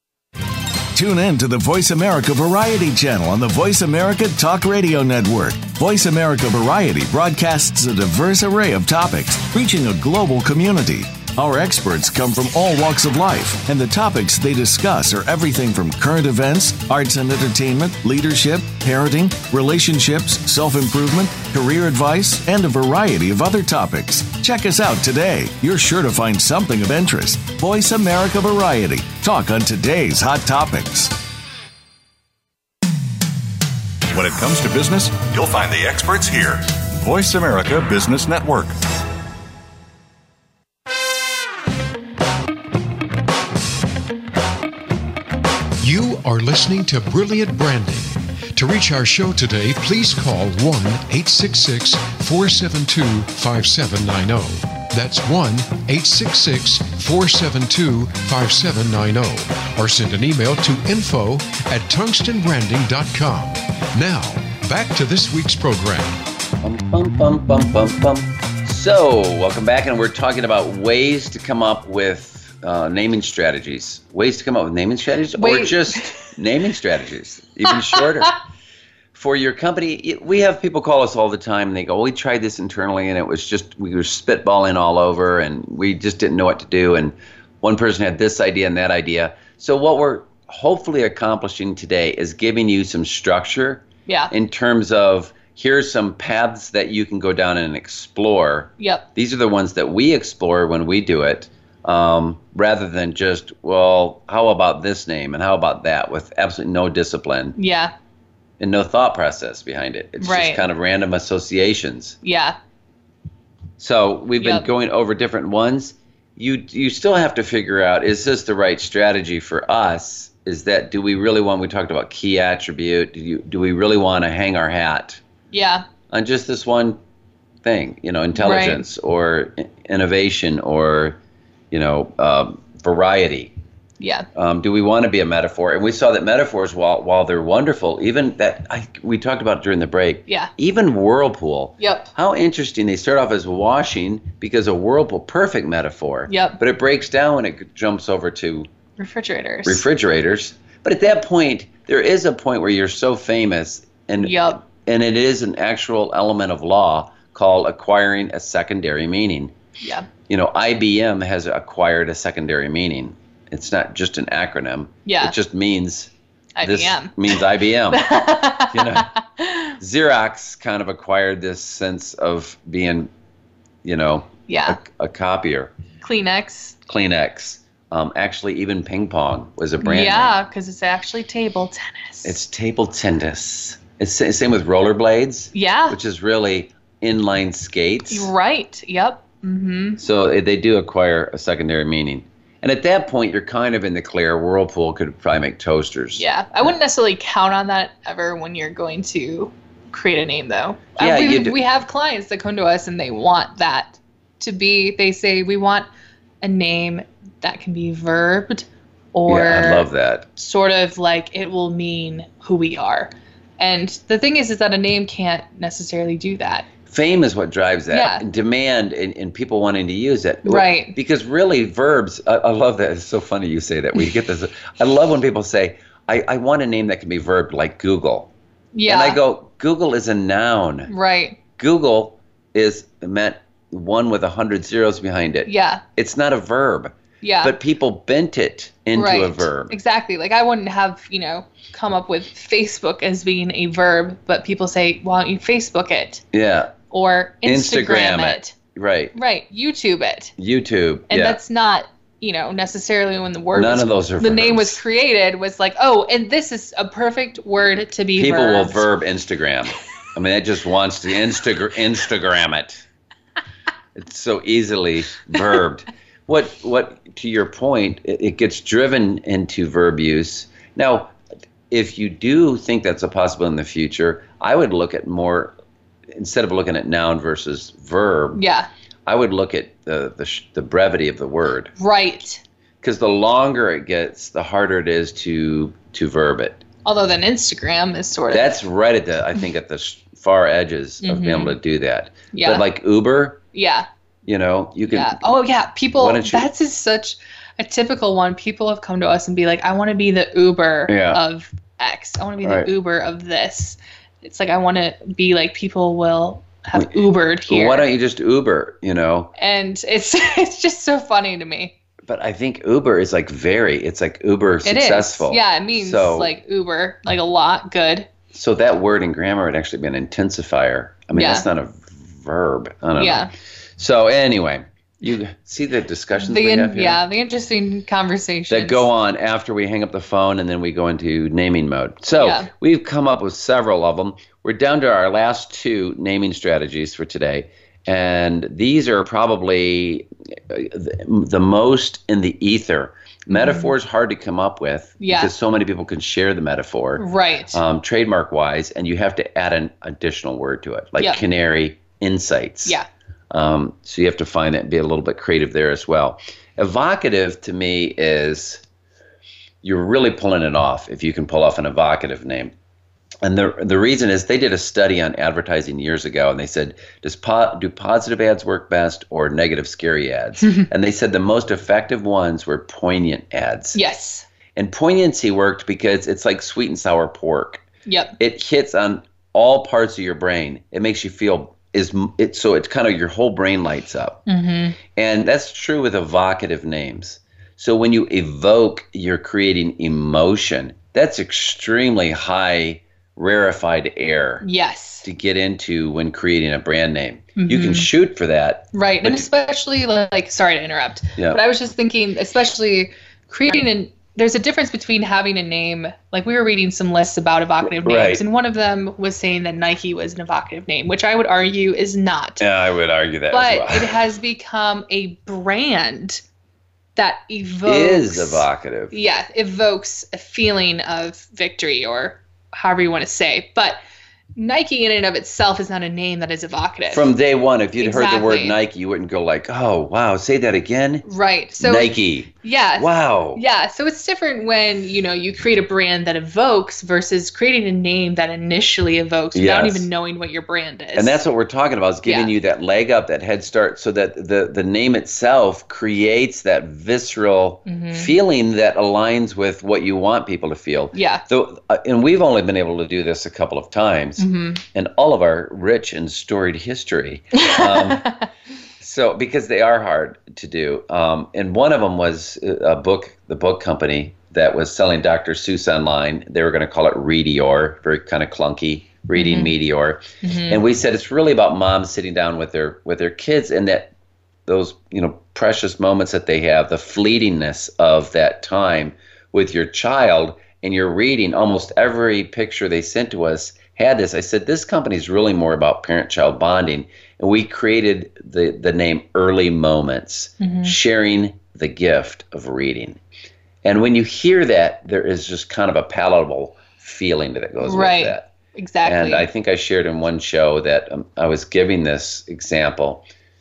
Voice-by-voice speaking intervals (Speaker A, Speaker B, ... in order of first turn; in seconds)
Speaker A: 0.9-31.2
Speaker B: 34.1-38.8
Speaker C: 45.8-66.2
Speaker D: 66.6-78.4, 79.1-107.6, 108.6-112.2, 113.8-125.2, 126.1-127.0, 127.6-131.2, 131.7-133.5, 134.3-148.7, 149.6-159.5, 160.3-166.1, 166.6-169.1, 169.8-173.1, 173.8-175.7, 176.9-180.3, 182.2-188.3, 190.0-196.2, 201.0-201.6, 209.3-210.3, 216.9-228.3, 228.9-230.9, 231.6-239.7, 246.3-246.7, 247.4-249.1, 250.4-251.4, 253.5-254.8, 258.2-262.8, 263.9-271.1, 271.7-275.5, 276.1-278.4, 279.1-281.7, 282.8-286.6, 288.3-293.4, 294.3-295.2, 295.9-296.5, 300.9-301.2, 302.4-302.7, 307.4-309.3, 312.1-316.3, 318.3-327.0, 328.5-352.8, 353.3-358.6, 359.6-362.5, 363.2-373.8, 374.6-377.6, 378.2-384.2, 384.9-394.4, 395.0-399.3, 407.6-408.2, 412.4-413.9, 417.6-418.9, 426.9-431.1, 431.6-433.4, 439.3-439.9, 440.9-458.2, 458.8-473.9, 474.5-493.0, 493.6-498.3, 498.9-503.0
Speaker E: 75.4-76.3, 77.7-78.0, 94.1-94.3, 98.8-99.1, 107.6-107.9, 110.2-110.6, 112.2-112.6, 114.4-114.7, 125.5-125.9, 128.4-128.8, 134.0-134.3, 141.8-142.1, 146.3-146.6, 149.0-149.8, 154.2-154.6, 159.8-160.1, 165.1-165.3, 166.6-169.7, 174.5-174.8, 176.0-176.8, 179.8-182.4, 185.5-186.0, 188.1-190.0, 196.2-205.9, 206.4-216.7, 217.9-218.2, 220.4-220.9, 228.7-229.2, 230.9-231.4, 235.5-235.8, 237.2-237.5, 238.9-246.2, 246.9-248.5, 249.1-250.3, 251.1-258.9, 278.4-278.7, 281.8-282.4, 286.9-288.5, 291.0-291.6, 292.3-292.6, 293.5-293.9, 294.9-307.9, 309.4-311.7, 314.6-318.1, 321.1-321.5, 323.0-323.3, 326.2-328.9, 332.1-332.5, 343.3-343.7, 345.0-345.3, 347.0-347.6, 351.0-351.2, 373.7-374.3, 377.9-378.2, 384.3-384.8, 394.4-395.1, 397.4-397.9, 398.7-412.4, 413.3-416.2, 416.9-423.8, 424.4-427.1, 427.8-428.6, 431.1-441.2, 442.1-442.3, 447.7-448.1, 450.9-451.2, 454.2-454.6, 457.3-458.2, 469.1-469.5, 470.2-470.6, 490.4-490.7, 497.6-499.3